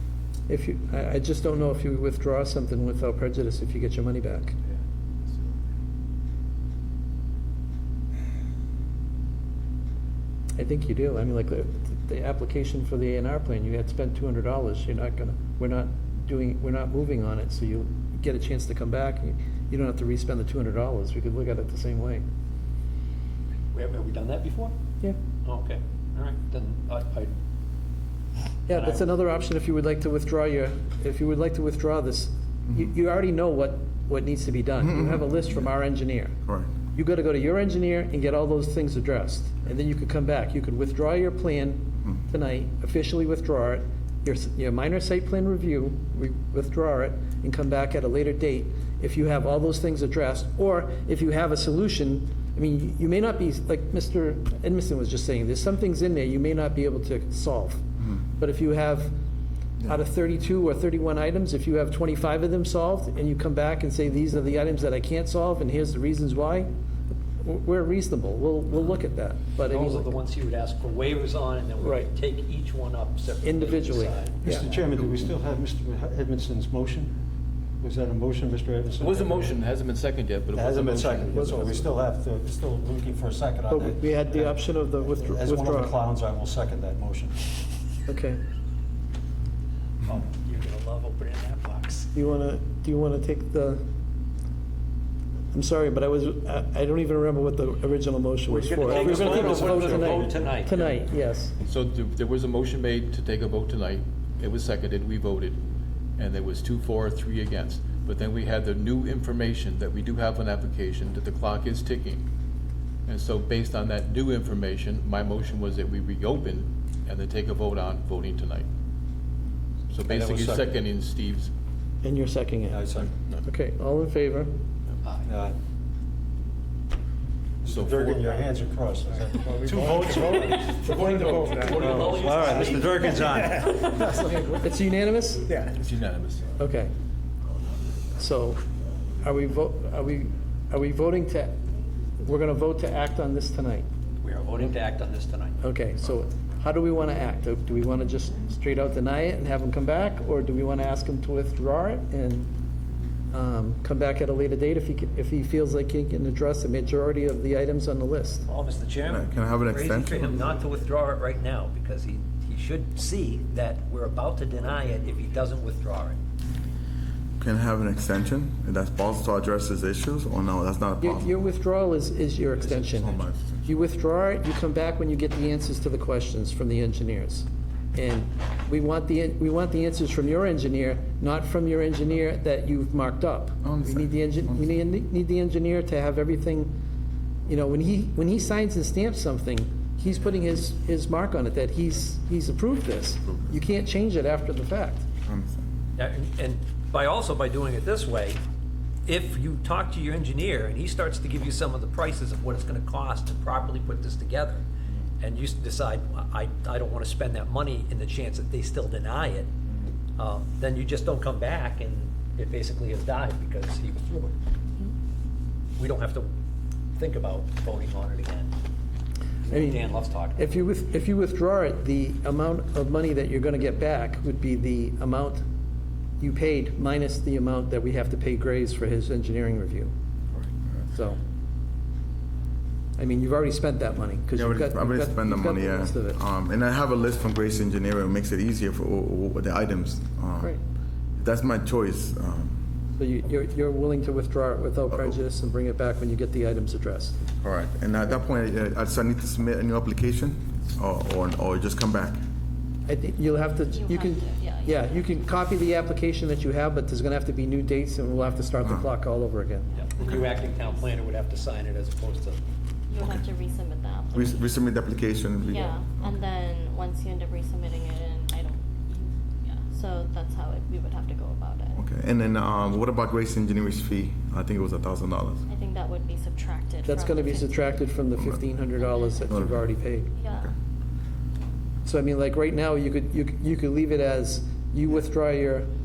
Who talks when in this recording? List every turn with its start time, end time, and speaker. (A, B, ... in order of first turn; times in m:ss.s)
0:00.5-0:04.5 A
0:04.7-0:05.6 B
0:10.6-0:22.2 A
0:23.7-0:24.7 C
0:25.4-0:27.3 C
0:28.7-0:36.4 A
0:28.7-0:29.1 C
0:34.8-0:35.4 D
0:36.9-0:57.8 A
0:58.3-0:59.1 A
0:59.8-1:06.7 A
1:07.4-1:10.2 A
1:09.6-1:14.4 C
1:11.8-1:12.1 A
1:13.4-1:14.6 A
1:14.4-1:17.1 E
1:17.8-1:19.5 E
1:19.0-1:21.9 F
1:20.5-1:27.6 E
1:23.7-1:26.0 A
1:28.1-1:28.4 A
1:30.1-1:32.1 C
1:32.1-1:33.8 A
1:35.5-1:41.5 A
1:38.5-1:40.9 C
1:38.8-1:40.6 E
1:41.6-1:45.6 F
1:46.2-1:52.2 F
1:53.1-1:58.6 F
1:59.9-2:01.5 F
2:00.1-2:00.7 E
2:02.0-2:02.8 A
2:02.7-2:03.1 E
2:03.1-2:03.4 F
2:03.4-2:04.5 A
2:05.2-2:05.5 E
2:07.6-2:10.8 E
2:07.7-2:08.4 F
2:09.6-2:14.0 B
2:09.7-2:11.0 C
2:10.8-2:12.7 F
2:11.6-2:14.0 C
2:11.8-2:13.8 E
2:13.6-2:15.4 A
2:15.5-2:15.8 B
2:15.8-2:16.5 F
2:16.6-2:16.9 A
2:18.2-2:18.6 A
2:19.2-2:21.6 A
2:22.2-2:23.9 A
2:24.2-2:25.6 C
2:25.6-2:32.5 A
2:33.3-2:38.4 A
2:38.5-2:46.2 C
2:39.1-2:40.3 D
2:47.4-2:51.3 D
2:51.0-3:06.7 A
2:52.6-2:53.6 D
3:03.6-3:04.6 D
3:07.5-3:15.0 A
3:15.2-3:15.6 D
3:16.0-3:18.4 C
3:19.0-3:24.6 C
3:25.2-3:29.5 C
3:30.2-3:34.3 C
3:35.8-3:36.3 C
3:37.0-3:38.5 C
3:39.4-3:40.6 C
3:39.5-3:39.8 A
3:40.4-3:45.4 A
3:46.2-3:49.9 A
3:50.9-3:51.2 A
3:53.0-3:56.2 A
3:54.3-4:00.6 D
4:01.2-4:02.6 D
4:03.0-4:07.2 A
4:07.4-4:12.2 D
4:12.9-4:19.7 A
4:13.7-4:15.3 G
4:18.6-4:18.9 D
4:19.7-4:20.8 G
4:19.7-4:22.4 C
4:22.9-4:24.6 G
4:23.0-4:23.2 D
4:24.1-4:26.2 D
4:25.4-4:31.8 G
4:31.8-4:35.4 D
4:35.5-4:38.0 G
4:36.8-4:40.1 A
4:38.7-4:39.4 G
4:39.3-4:39.7 D
4:40.1-4:40.5 G
4:41.8-4:45.7 A